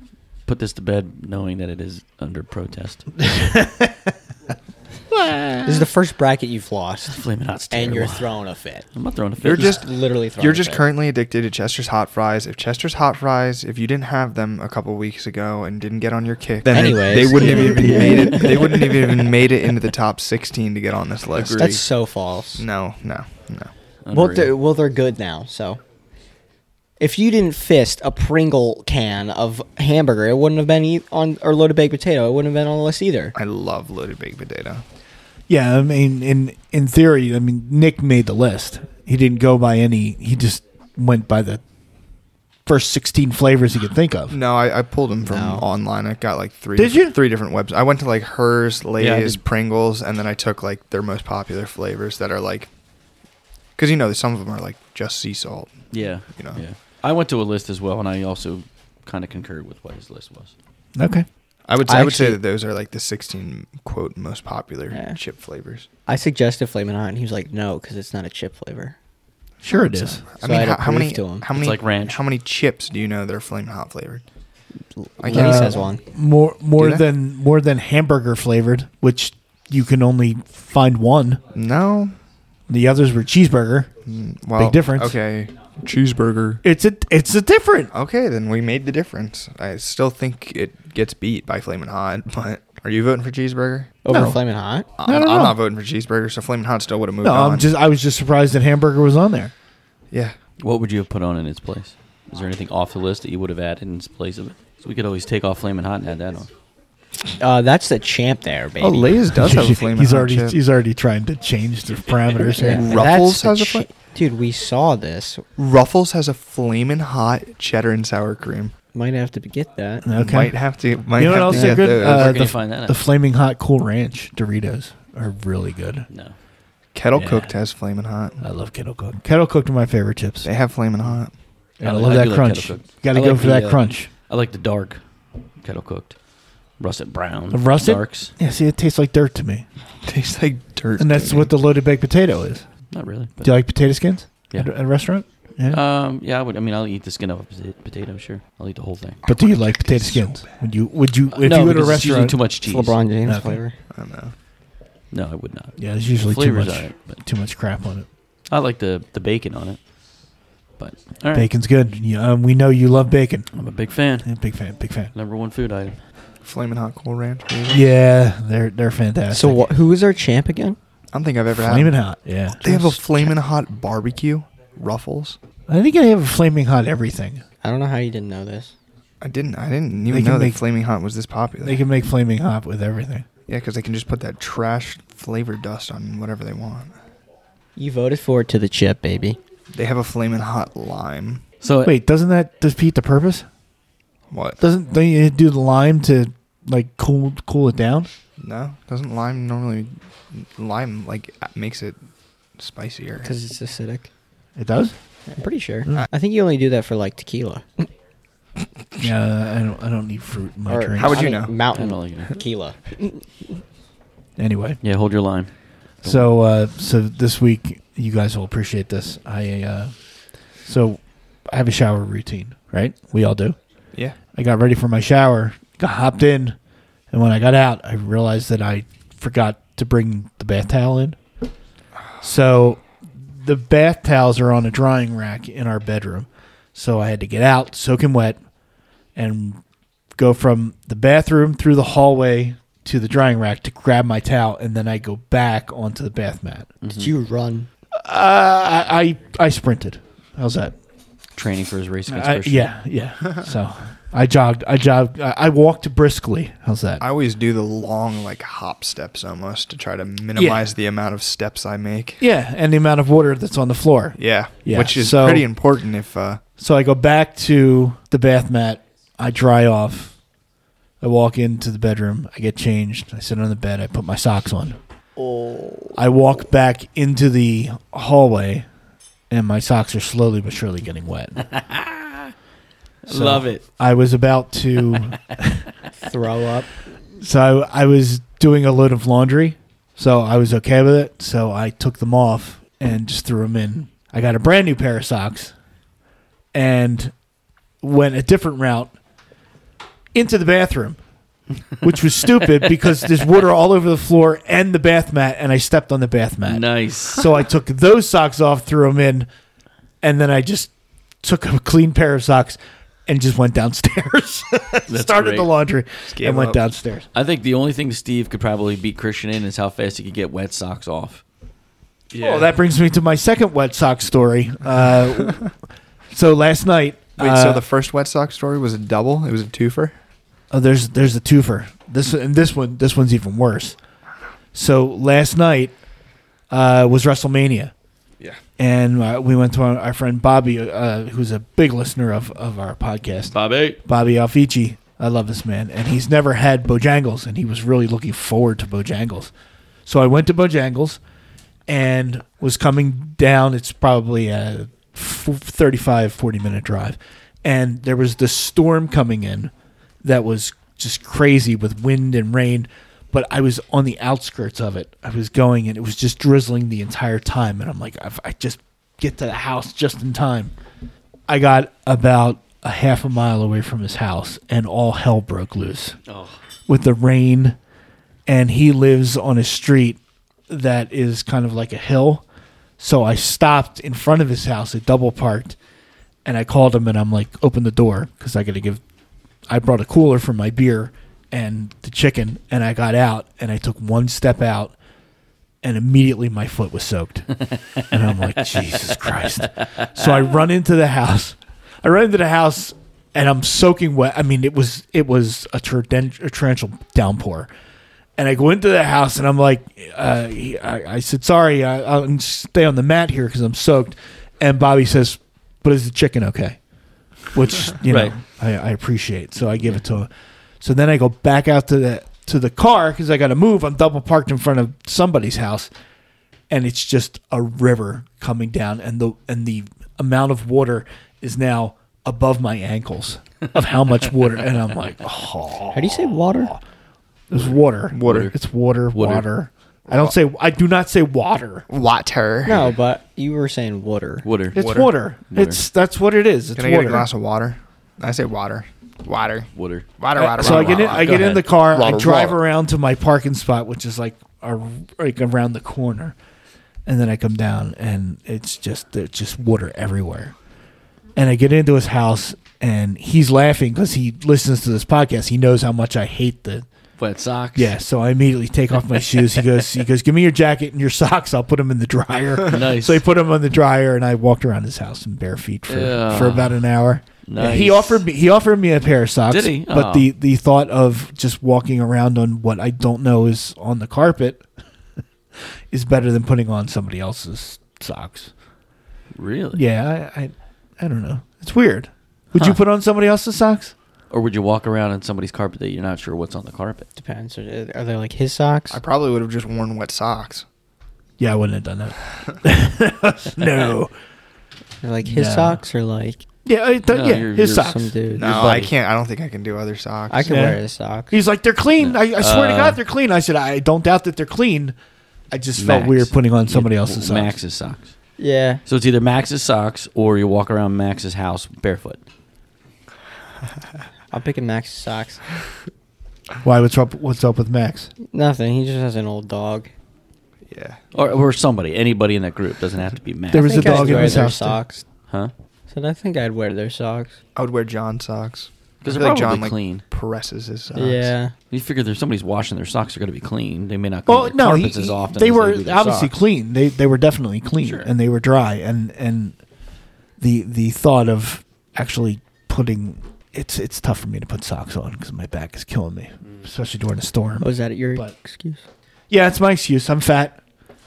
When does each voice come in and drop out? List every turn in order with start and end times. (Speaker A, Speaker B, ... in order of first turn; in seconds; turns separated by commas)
Speaker A: 0.5-3.1, Speaker B: 3.2-4.1, Speaker B: 5.1-5.9, Speaker C: 5.7-7.2, Speaker A: 7.1-8.4, Speaker C: 7.7-8.9, Speaker A: 8.9-9.8, Speaker D: 9.4-21.8, Speaker C: 9.6-10.9, Speaker C: 16.7-18.8, Speaker A: 17.4-18.9, Speaker A: 21.3-21.8, Speaker C: 21.6-22.6, Speaker D: 22.6-23.7, Speaker A: 24.1-24.5, Speaker C: 24.1-25.8, Speaker C: 27.0-33.4, Speaker D: 33.4-34.8, Speaker B: 35.5-41.6, Speaker B: 42.7-44.4, Speaker D: 44.3-52.7, Speaker C: 45.2-45.6, Speaker B: 46.8-47.2, Speaker A: 49.0-49.4, Speaker D: 53.8-55.7, Speaker A: 55.9-60.5, Speaker D: 56.4-56.6, Speaker B: 61.0-61.3, Speaker D: 61.7-65.9, Speaker C: 61.9-62.4, Speaker C: 64.9-65.2, Speaker C: 66.1-69.0, Speaker B: 69.6-70.2, Speaker D: 70.0-74.2, Speaker C: 70.4-71.5, Speaker A: 71.5-72.2, Speaker C: 75.0-76.0, Speaker D: 75.2-75.9, Speaker B: 75.3-81.4, Speaker D: 76.8-77.0, Speaker D: 81.5-82.2, Speaker B: 82.7-83.9, Speaker D: 84.1-86.6, Speaker B: 84.6-85.2, Speaker B: 86.6-87.9, Speaker D: 87.9-94.0, Speaker C: 94.0-94.9, Speaker B: 94.1-94.4, Speaker D: 95.0-97.7, Speaker B: 95.0-95.6, Speaker B: 97.2-99.5, Speaker A: 100.6-106.5, Speaker C: 107.4-109.2, Speaker D: 108.8-110.6, Speaker B: 109.4-113.1, Speaker C: 112.5-115.5, Speaker D: 112.6-113.9, Speaker D: 115.6-118.7, Speaker C: 118.9-120.0, Speaker B: 120.0-120.6, Speaker D: 120.1-122.5, Speaker B: 121.2-126.1, Speaker C: 121.5-121.9, Speaker A: 121.5-123.0, Speaker A: 126.1-126.3, Speaker D: 127.0-128.4, Speaker B: 127.1-127.6, Speaker B: 128.4-130.5, Speaker D: 130.4-131.3, Speaker B: 131.8-134.1, Speaker A: 131.8-135.0, Speaker A: 135.6-136.2, Speaker A: 136.8-138.3, Speaker B: 137.5-139.7, Speaker D: 140.0-141.5, Speaker B: 141.0-142.7, Speaker A: 142.9-143.6, Speaker B: 143.4-145.8, Speaker A: 145.7-149.2, Speaker D: 149.3-150.5, Speaker B: 149.3-152.4, Speaker A: 151.3-153.0, Speaker C: 152.7-153.8, Speaker B: 153.3-153.6, Speaker D: 153.9-154.3, Speaker A: 155.1-157.1, Speaker B: 155.8-158.1, Speaker A: 158.5-159.8, Speaker A: 160.8-161.5, Speaker B: 161.3-163.5, Speaker A: 163.5-164.3, Speaker B: 164.2-165.1, Speaker A: 165.1-166.0, Speaker D: 166.4-167.8, Speaker B: 167.7-169.7, Speaker C: 169.3-170.8, Speaker D: 171.1-172.0, Speaker B: 171.5-173.3, Speaker D: 172.6-175.4, Speaker B: 175.7-177.4, Speaker C: 177.6-178.7, Speaker D: 179.2-181.8, Speaker B: 180.1-180.6, Speaker B: 181.6-183.3, Speaker D: 183.5-186.9, Speaker C: 187.8-189.4, Speaker D: 189.7-191.4, Speaker A: 191.6-191.9, Speaker B: 191.8-193.5, Speaker D: 194.3-194.6, Speaker B: 194.6-198.1, Speaker D: 198.4-202.0, Speaker D: 202.6-203.3, Speaker C: 203.2-204.1, Speaker B: 204.6-204.9, Speaker C: 205.3-207.9, Speaker B: 209.0-211.2, Speaker C: 210.7-213.3, Speaker D: 211.0-211.5, Speaker A: 211.7-212.3, Speaker B: 214.4-214.8, Speaker A: 214.8-215.5, Speaker B: 216.0-219.9, Speaker B: 220.7-223.6, Speaker B: 224.3-226.6, Speaker B: 227.1-231.2, Speaker B: 232.2-238.4, Speaker B: 239.2-239.6, Speaker B: 240.2-246.7, Speaker A: 246.8-247.1, Speaker C: 246.9-247.7, Speaker B: 247.9-250.8, Speaker A: 251.4-252.7, Speaker B: 252.1-257.0, Speaker D: 257.0-262.2, Speaker B: 260.4-260.7, Speaker B: 262.2-265.5, Speaker D: 264.2-266.4, Speaker B: 266.6-270.1, Speaker B: 271.0-274.8, Speaker C: 275.2-276.0, Speaker B: 276.0-278.7, Speaker B: 279.3-281.4, Speaker A: 281.4-282.3, Speaker A: 283.1-283.6, Speaker B: 283.1-285.6, Speaker C: 286.0-286.7, Speaker B: 287.2-295.5, Speaker B: 296.5-297.1, Speaker B: 297.8-298.9, Speaker B: 300.1-301.0, Speaker B: 301.8-309.3, Speaker A: 306.5-307.4, Speaker B: 310.0-310.7, Speaker B: 311.2-317.1, Speaker A: 314.9-315.5, Speaker D: 316.1-316.6, Speaker A: 317.1-321.2, Speaker D: 322.1-322.5, Speaker B: 322.2-325.5, Speaker B: 326.1-327.6, Speaker D: 327.2-330.0, Speaker B: 330.5-333.8, Speaker B: 334.5-335.7, Speaker B: 336.5-337.7, Speaker B: 338.6-349.3, Speaker A: 343.3-343.8, Speaker B: 349.9-351.0, Speaker B: 351.7-359.5, Speaker B: 360.0-370.5, Speaker B: 371.3-376.0, Speaker A: 376.1-376.4, Speaker B: 376.7-377.6, Speaker B: 378.3-382.2, Speaker B: 382.8-385.6, Speaker B: 386.2-388.8, Speaker B: 389.5-394.7, Speaker B: 395.6-397.3, Speaker B: 397.9-407.5, Speaker A: 398.4-400.1, Speaker B: 408.2-416.6, Speaker B: 417.3-420.1, Speaker A: 417.8-418.1, Speaker B: 420.6-425.7, Speaker B: 426.5-436.6, Speaker C: 435.7-436.5, Speaker B: 437.3-441.7, Speaker D: 437.9-438.3, Speaker A: 438.0-438.3, Speaker A: 438.9-439.2, Speaker D: 439.9-440.1, Speaker D: 441.7-442.8, Speaker C: 442.4-444.3, Speaker A: 444.2-444.6, Speaker B: 444.5-447.1, Speaker D: 444.6-444.9, Speaker A: 445.3-445.6, Speaker D: 446.6-452.4, Speaker A: 449.6-449.9, Speaker B: 450.1-456.2, Speaker A: 450.4-451.5, Speaker B: 456.9-460.4, Speaker B: 461.2-466.7, Speaker A: 467.0-467.7, Speaker B: 467.6-484.4, Speaker A: 472.5-473.0, Speaker A: 475.7-476.6, Speaker A: 477.3-478.1, Speaker A: 479.3-480.1, Speaker B: 485.7-488.3, Speaker A: 489.1-489.6, Speaker B: 489.5-493.7, Speaker A: 494.1-496.9, Speaker C: 497.0-498.8, Speaker D: 498.7-500.5, Speaker B: 501.2-503.9, Speaker C: 504.8-506.2, Speaker B: 505.0-505.6, Speaker B: 506.4-507.9, Speaker A: 506.9-508.7, Speaker C: 507.6-508.4, Speaker D: 508.2-510.4, Speaker C: 510.1-511.2, Speaker B: 510.3-510.6, Speaker B: 511.1-514.8, Speaker A: 511.8-512.8, Speaker B: 515.3-517.4, Speaker A: 515.6-518.0, Speaker C: 518.2-518.6, Speaker A: 518.7-522.0, Speaker C: 524.1-525.2, Speaker B: 526.4-527.9, Speaker C: 528.1-529.7, Speaker D: 530.5-530.8, Speaker A: 530.9-534.3, Speaker B: 533.3-534.6, Speaker C: 533.4-534.8, Speaker C: 535.7-537.2, Speaker D: 537.4-541.1, Speaker A: 538.8-539.8, Speaker C: 540.8-541.3, Speaker A: 541.5-546.1, Speaker B: 544.1-549.4, Speaker A: 547.6-547.9, Speaker B: 550.2-558.1, Speaker C: 557.4-558.6, Speaker B: 559.1-560.4